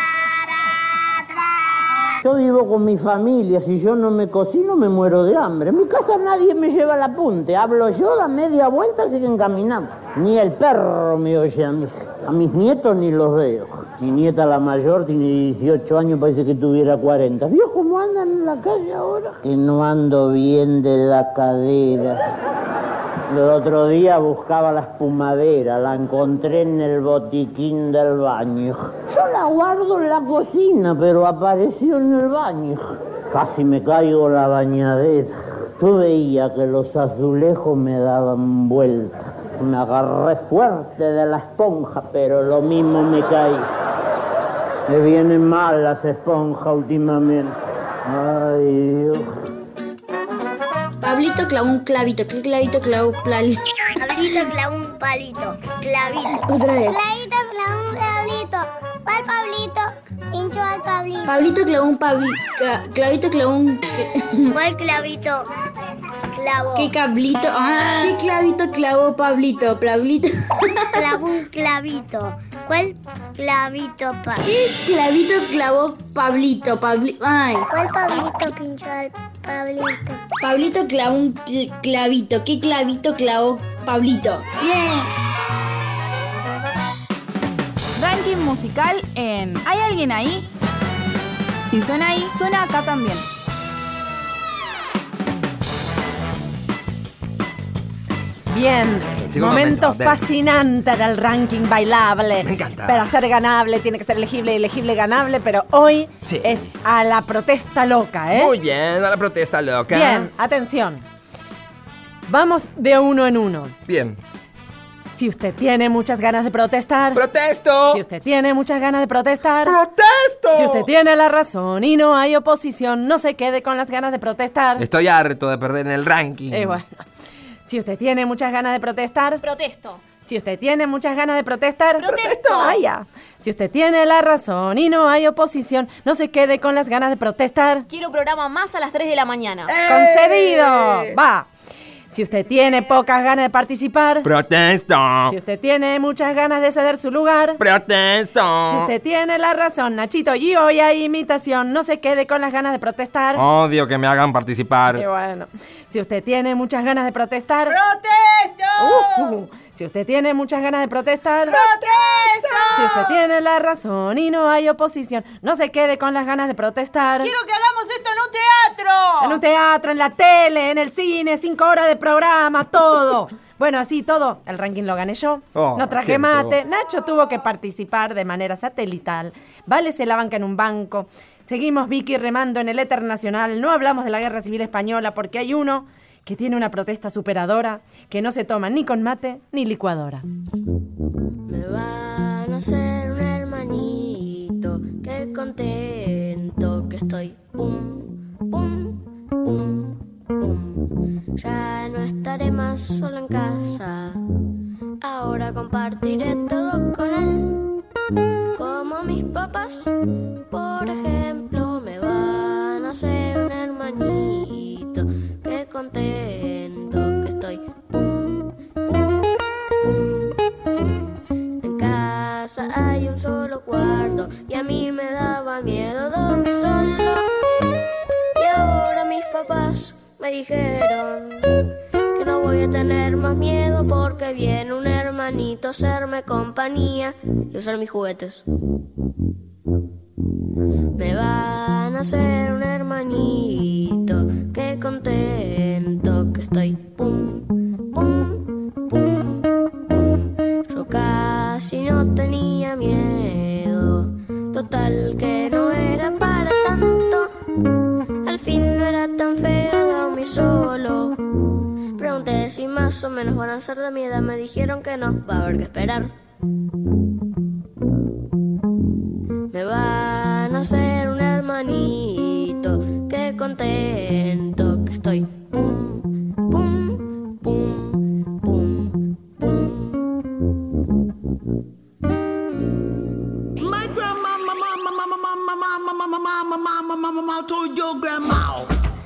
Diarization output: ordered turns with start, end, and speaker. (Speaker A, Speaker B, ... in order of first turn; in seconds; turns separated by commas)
Speaker A: 2.2-22.2, Speaker A: 23.3-43.7, Speaker A: 44.9-47.5, Speaker A: 48.0-49.3, Speaker B: 51.0-53.6, Speaker C: 54.0-61.3, Speaker B: 56.5-57.0, Speaker B: 61.2-64.5, Speaker C: 64.5-65.5, Speaker C: 66.3-66.9, Speaker B: 66.8-71.2, Speaker C: 71.0-74.4, Speaker B: 74.4-77.6, Speaker C: 77.7-80.2, Speaker B: 80.4-85.1, Speaker D: 88.0-90.5, Speaker D: 91.7-93.2, Speaker E: 98.5-108.5, Speaker F: 99.0-100.2, Speaker F: 102.4-103.1, Speaker F: 106.2-106.7, Speaker F: 108.3-110.3, Speaker E: 109.9-111.0, Speaker E: 112.3-113.8, Speaker F: 113.9-114.2, Speaker E: 115.1-117.2, Speaker F: 117.1-118.0, Speaker E: 117.9-119.8, Speaker F: 119.6-120.9, Speaker E: 120.5-124.8, Speaker F: 124.8-126.8, Speaker E: 126.5-127.0, Speaker E: 127.6-129.4, Speaker G: 129.4-130.0, Speaker E: 130.2-137.9, Speaker G: 132.0-132.8, Speaker F: 132.0-132.7, Speaker G: 137.9-139.8, Speaker F: 139.7-141.1, Speaker E: 139.8-141.5, Speaker E: 142.1-144.3, Speaker F: 144.2-145.3, Speaker E: 145.3-147.6, Speaker F: 147.6-148.9, Speaker E: 148.6-153.4, Speaker F: 153.3-155.0, Speaker E: 154.9-157.8, Speaker H: 158.2-158.5, Speaker E: 158.8-161.6, Speaker H: 161.6-162.6, Speaker E: 162.7-167.3, Speaker H: 168.2-168.8, Speaker E: 169.2-190.2, Speaker F: 175.5-176.6, Speaker I: 191.5-204.2, Speaker I: 205.0-207.7, Speaker I: 208.5-209.9, Speaker I: 210.5-227.3, Speaker I: 228.3-231.5, Speaker I: 232.1-238.4, Speaker I: 240.9-257.3, Speaker I: 258.2-261.2, Speaker I: 261.9-266.1, Speaker I: 269.5-280.1, Speaker H: 283.6-288.6